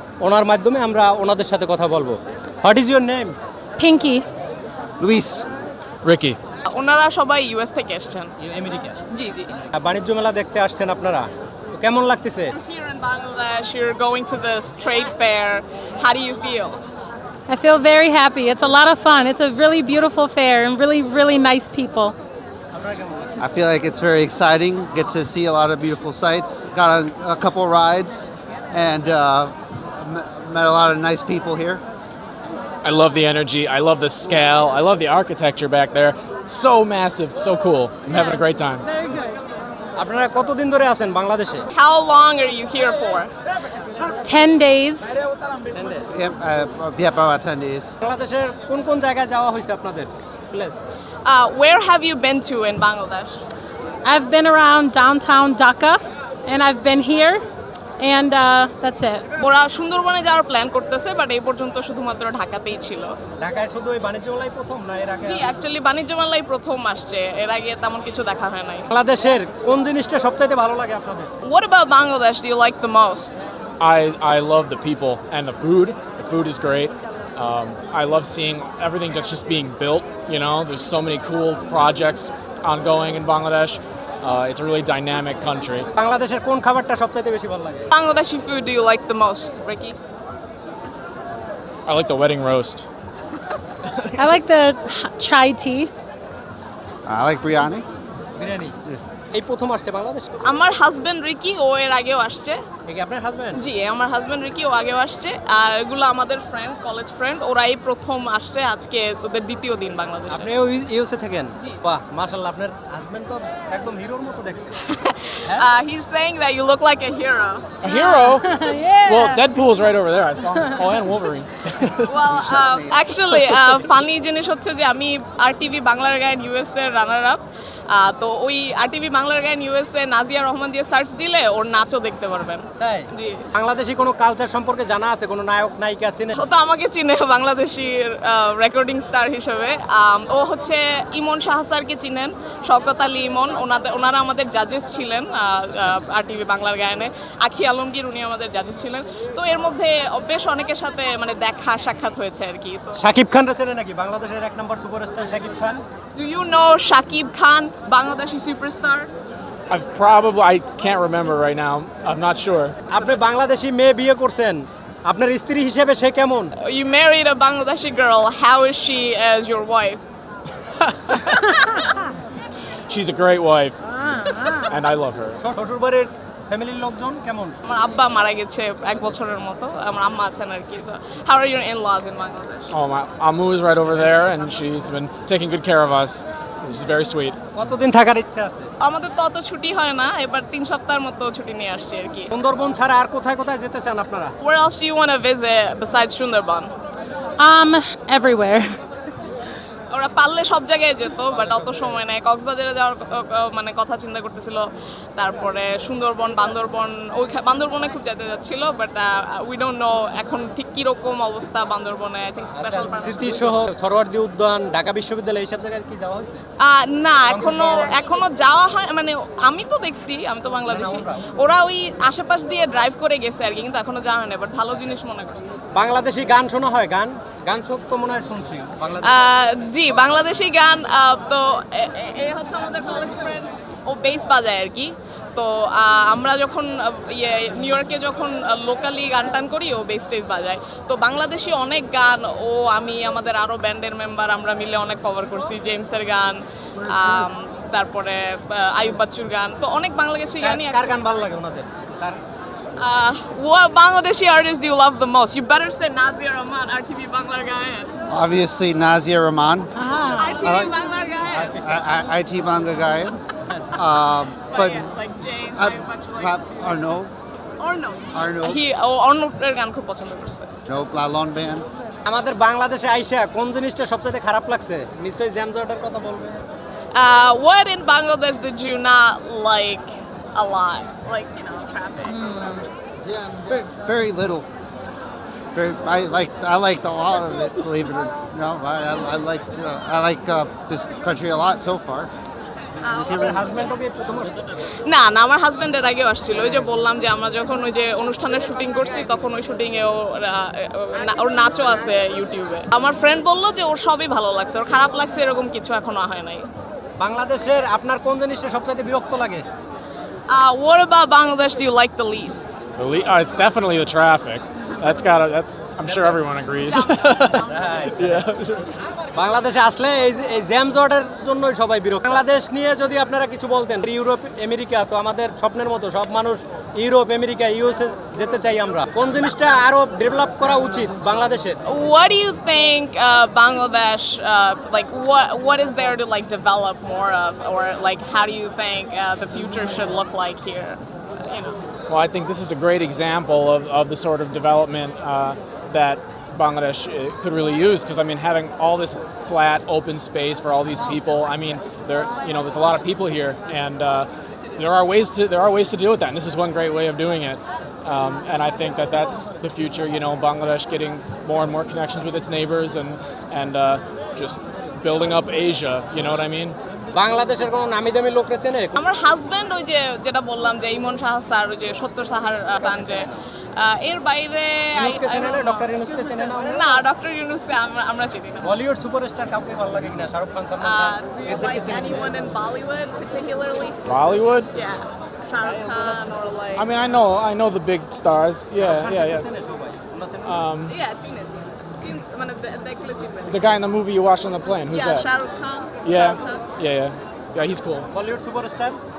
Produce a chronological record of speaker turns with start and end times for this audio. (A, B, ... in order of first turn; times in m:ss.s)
0:00.2-0:03.3 A
0:03.8-0:04.2 B
0:05.0-0:05.4 C
0:06.0-0:06.4 D
0:06.7-0:08.3 E
0:08.4-0:09.0 A
0:09.1-0:09.5 E
0:09.7-0:12.5 A
0:12.5-0:16.8 E
0:17.5-0:22.2 B
0:22.7-0:23.3 A
0:23.4-0:31.8 C
0:32.8-0:38.9 D
0:38.1-0:39.3 B
0:40.0-0:41.7 A
0:41.7-0:43.3 E
0:44.0-0:45.2 B
0:45.7-0:46.0 A
0:46.1-0:47.9 C
0:48.0-0:50.8 A
0:51.2-0:53.4 E
0:54.0-0:57.4 B
0:58.0-0:59.2 B
0:59.4-1:03.1 E
1:03.4-1:05.5 A
1:05.2-1:08.9 E
1:08.9-1:11.3 A
1:11.4-1:13.4 E
1:13.8-1:25.9 D
1:26.0-1:27.8 A
1:27.9-1:30.0 E
1:31.9-1:32.9 D
1:33.9-1:34.1 D
1:34.2-1:35.9 B
1:37.1-1:37.8 C
1:38.4-1:38.8 A
1:39.3-1:40.3 A
1:40.4-1:42.6 E
1:42.9-1:43.6 A
1:43.6-1:50.5 E
1:50.3-1:54.8 A
1:54.9-1:57.9 E
1:57.8-2:02.2 D
1:57.9-1:59.4 B
2:02.1-2:13.4 E
2:02.3-2:03.0 C
2:12.8-2:16.4 A
2:16.4-2:33.0 E
2:33.0-2:35.8 A
2:36.2-2:39.1 E
2:39.7-2:42.8 D
2:42.9-2:46.5 A
2:46.6-2:50.0 E
2:50.8-2:51.5 D
2:51.2-2:51.9 E
2:52.9-2:55.4 D
2:54.1-2:54.6 B
2:55.4-2:57.6 A
2:57.6-3:02.7 E
3:02.7-3:07.4 D
3:07.6-3:08.7 A
3:08.8-3:12.3 E
3:12.3-3:14.3 A
3:14.4-3:16.7 E
3:17.4-3:18.8 B
3:19.9-3:33.6 E
3:32.5-3:36.4 A
3:36.6-3:45.5 E
3:37.3-3:37.9 A
3:40.6-3:41.2 A
3:45.7-3:49.2 A
3:49.0-4:11.0 E
4:10.4-4:12.2 A
4:12.8-4:17.9 E
4:18.1-4:19.7 C
4:19.8-4:20.4 B
4:20.2-4:21.6 E
4:20.4-4:20.8 C
4:21.3-4:23.2 C
4:23.8-4:24.9 C
4:24.5-4:26.4 E
4:25.5-4:27.1 C
4:27.6-4:30.5 E
4:28.1-4:28.6 C
4:30.7-4:31.6 C
4:32.1-4:36.4 A
4:36.9-4:42.5 E
4:42.1-4:42.6 B
4:43.3-4:44.5 C
4:45.5-4:52.1 C
4:52.8-4:53.3 E
4:52.9-4:54.4 A
4:53.1-4:53.5 C
4:54.9-5:06.5 E
5:07.0-5:09.4 A
5:10.3-5:12.6 E
5:12.8-5:18.8 D
5:15.8-5:16.2 A
5:16.6-5:17.7 E
5:17.5-5:18.2 A
5:19.1-5:31.6 A
5:31.6-5:41.6 E
5:41.9-6:06.6 D
6:06.9-6:08.8 A
6:08.8-6:15.7 E
6:12.7-6:13.0 A
6:14.8-6:16.8 A
6:16.5-6:18.6 E
6:18.4-6:22.1 A
6:20.6-6:23.8 E
6:23.8-6:24.5 D
6:24.5-6:26.7 E
6:26.5-6:29.2 D
6:28.6-6:30.4 A
6:30.2-6:30.8 D
6:30.7-6:33.4 E
6:33.3-6:35.1 D
6:34.7-6:36.5 E
6:35.8-6:37.9 D
6:37.9-6:38.8 A